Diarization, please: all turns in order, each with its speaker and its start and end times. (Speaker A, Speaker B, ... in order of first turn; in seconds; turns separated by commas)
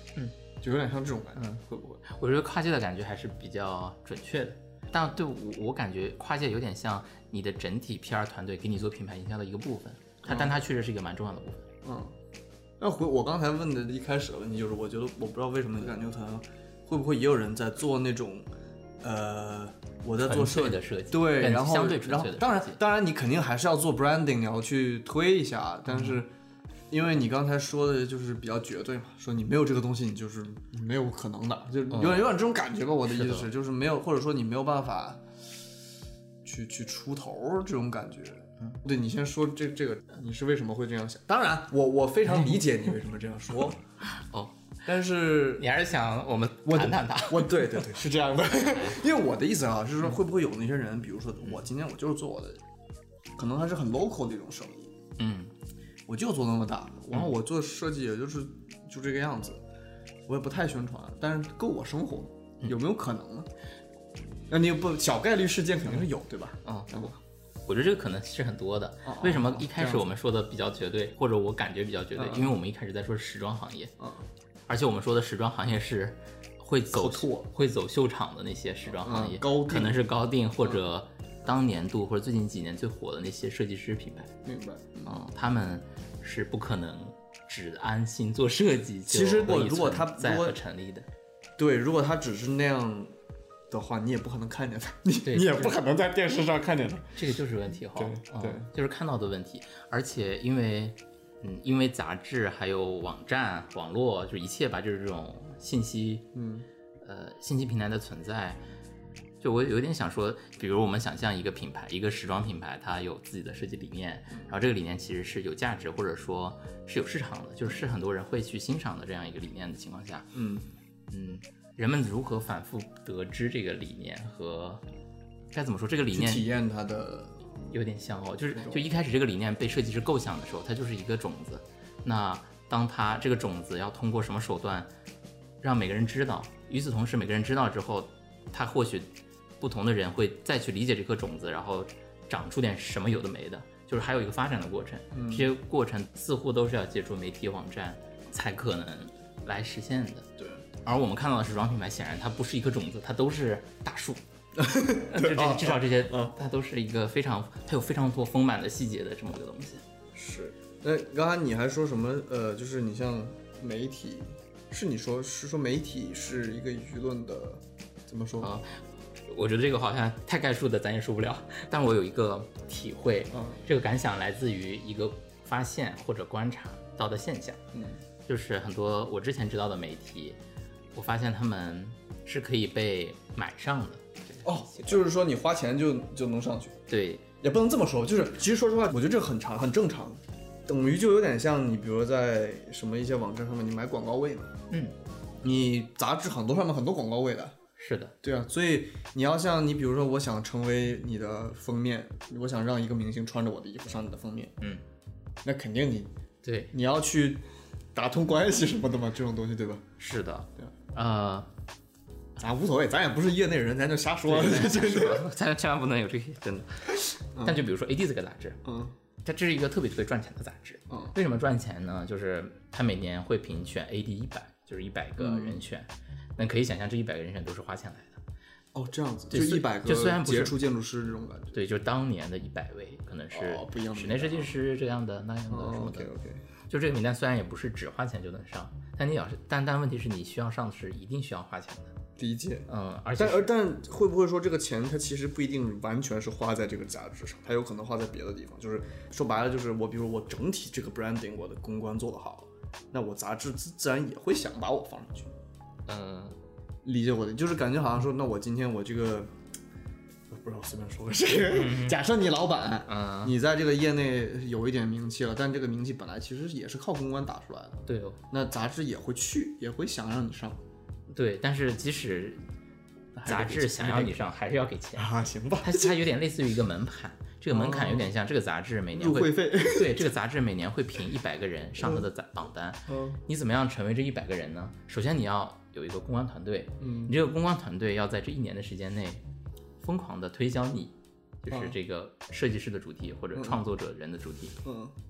Speaker A: 0.6-2.0, Speaker B: 1.4-11.7, Speaker A: 10.2-10.6, Speaker A: 11.8-12.1, Speaker A: 12.8-18.5, Speaker A: 19.0-26.3, Speaker B: 20.2-22.8, Speaker B: 25.9-26.2, Speaker A: 26.9-35.2, Speaker B: 31.9-32.4, Speaker B: 33.0-33.5, Speaker A: 36.4-43.8, Speaker B: 44.1-44.5, Speaker A: 44.8-45.7, Speaker B: 45.5-47.9, Speaker A: 46.6-52.6, Speaker B: 48.6-49.0, Speaker A: 53.4-54.9, Speaker B: 55.2-55.5, Speaker A: 56.1-59.6, Speaker A: 60.3-63.5, Speaker A: 64.5-67.2, Speaker B: 67.7-73.9, Speaker A: 69.0-70.1, Speaker A: 72.2-72.5, Speaker A: 74.0-74.2, Speaker B: 74.7-84.3, Speaker A: 76.9-77.5, Speaker A: 78.9-80.0, Speaker A: 84.4-85.2, Speaker B: 85.0-91.1, Speaker A: 89.1-90.6, Speaker A: 91.6-93.2, Speaker A: 93.7-97.2, Speaker B: 95.2-95.8, Speaker B: 97.1-106.2, Speaker A: 97.9-98.7, Speaker A: 106.3-106.7, Speaker B: 107.0-108.6, Speaker B: 109.4-120.3, Speaker A: 120.3-120.7, Speaker B: 121.1-124.8, Speaker B: 125.5-126.5, Speaker A: 126.1-127.4, Speaker B: 127.7-134.9, Speaker A: 128.5-128.8, Speaker B: 135.6-150.3, Speaker A: 145.1-145.5, Speaker A: 150.4-150.6, Speaker B: 150.8-154.2, Speaker A: 154.6-156.3, Speaker B: 154.9-159.8, Speaker A: 160.1-168.5, Speaker B: 168.4-177.6, Speaker A: 173.3-173.6, Speaker A: 177.7-178.0, Speaker B: 178.3-180.4, Speaker B: 180.9-185.1, Speaker A: 184.4-186.8, Speaker B: 186.9-187.2, Speaker A: 187.4-194.6, Speaker A: 195.4-197.6, Speaker B: 197.8-198.1, Speaker A: 198.2-204.5, Speaker A: 205.4-206.1, Speaker B: 206.4-206.7, Speaker A: 206.7-207.4, Speaker A: 207.9-209.8, Speaker B: 210.0-211.5, Speaker A: 212.4-215.2, Speaker B: 214.2-218.6, Speaker A: 217.3-217.6, Speaker A: 218.6-218.9, Speaker B: 219.2-228.2, Speaker A: 225.2-225.6, Speaker A: 228.7-231.6, Speaker B: 229.3-230.6, Speaker B: 231.5-236.1, Speaker A: 233.3-234.6, Speaker A: 235.5-236.4, Speaker B: 236.7-241.9, Speaker A: 242.2-255.3, Speaker B: 242.7-243.5, Speaker B: 255.9-256.4, Speaker A: 256.8-259.3, Speaker A: 260.3-270.6, Speaker B: 261.5-262.0, Speaker B: 262.9-263.3, Speaker B: 267.9-268.2, Speaker B: 271.1-272.4, Speaker A: 273.1-274.2, Speaker B: 273.2-289.2, Speaker A: 274.9-275.9, Speaker A: 277.5-278.1, Speaker A: 278.9-280.1, Speaker A: 282.9-283.2, Speaker A: 286.8-287.1, Speaker B: 289.8-290.9, Speaker B: 291.4-294.6, Speaker A: 291.5-291.8, Speaker A: 293.3-293.6, Speaker A: 294.6-294.9